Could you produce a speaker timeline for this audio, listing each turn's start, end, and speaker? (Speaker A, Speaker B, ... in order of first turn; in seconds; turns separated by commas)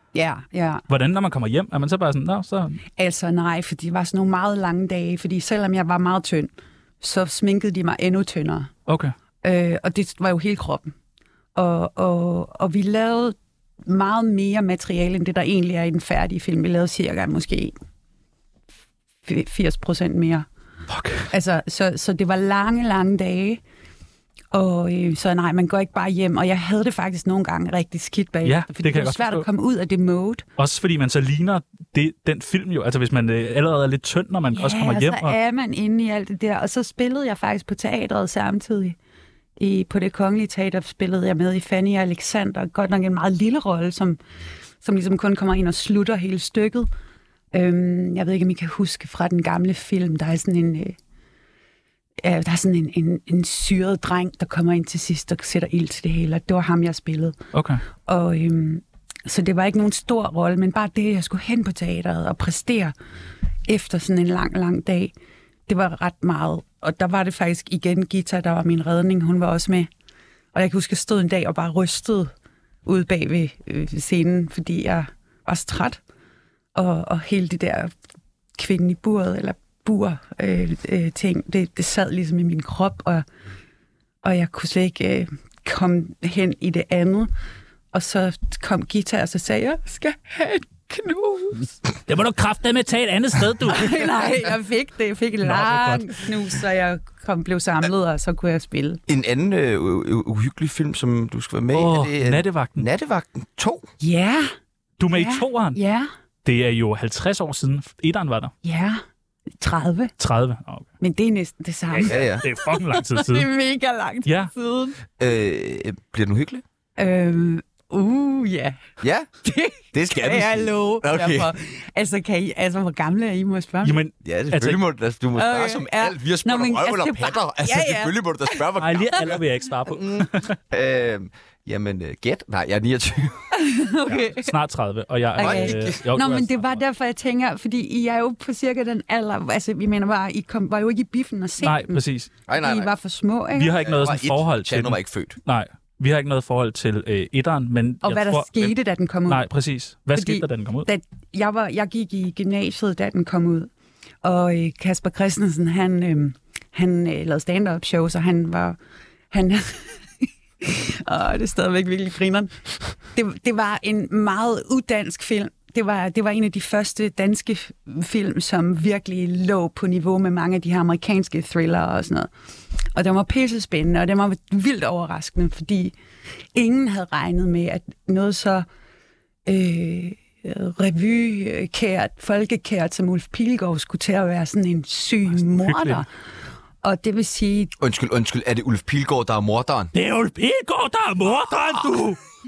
Speaker A: 0.1-0.8, Speaker B: 0.9-2.8, Speaker A: 3.0-6.5, Speaker A: 7.0-8.7, Speaker B: 8.9-9.1, Speaker A: 9.4-10.9, Speaker A: 11.5-17.7, Speaker A: 19.2-20.4, Speaker B: 20.9-21.3, Speaker A: 21.3-23.6, Speaker A: 24.5-30.4, Speaker B: 28.4-29.4, Speaker B: 30.6-35.4, Speaker A: 34.5-39.0, Speaker A: 39.6-44.2, Speaker A: 44.8-46.9, Speaker A: 47.5-51.0, Speaker A: 52.2-57.4, Speaker B: 57.5-57.8, Speaker A: 58.0-62.9, Speaker A: 63.7-65.1, Speaker A: 65.7-69.9, Speaker A: 70.5-72.3, Speaker A: 72.8-76.0, Speaker A: 76.7-77.9, Speaker A: 78.6-83.2, Speaker A: 84.2-87.3, Speaker A: 87.9-91.7, Speaker B: 92.1-94.1, Speaker A: 93.7-99.0, Speaker B: 95.4-96.1, Speaker C: 99.1-103.9, Speaker B: 101.7-102.8, Speaker A: 104.0-104.5, Speaker B: 105.0-105.8, Speaker A: 105.1-106.1, Speaker B: 106.4-108.5, Speaker A: 108.6-109.0, Speaker A: 109.6-110.1, Speaker B: 110.2-110.9, Speaker A: 111.0-115.0, Speaker B: 111.9-113.5, Speaker C: 112.0-112.4, Speaker B: 114.2-114.5, Speaker C: 115.2-116.6, Speaker A: 117.0-118.8, Speaker C: 119.0-119.3, Speaker A: 119.4-124.0, Speaker C: 119.9-121.5, Speaker B: 123.8-124.8, Speaker C: 124.2-133.4, Speaker A: 125.3-128.7, Speaker B: 128.8-130.6, Speaker A: 133.5-134.5, Speaker B: 134.1-136.8, Speaker A: 135.4-142.0, Speaker C: 135.4-136.0, Speaker B: 141.6-142.3, Speaker C: 142.5-142.9, Speaker A: 142.5-143.8, Speaker B: 143.6-148.5, Speaker C: 143.8-145.4, Speaker A: 148.0-149.4, Speaker B: 149.3-150.9, Speaker A: 150.1-153.7, Speaker A: 154.2-158.8, Speaker A: 159.3-172.3, Speaker A: 172.9-175.9, Speaker A: 176.5-178.7, Speaker A: 179.4-186.1, Speaker B: 185.3-186.0, Speaker A: 186.8-187.7, Speaker C: 187.8-189.9, Speaker B: 189.9-192.2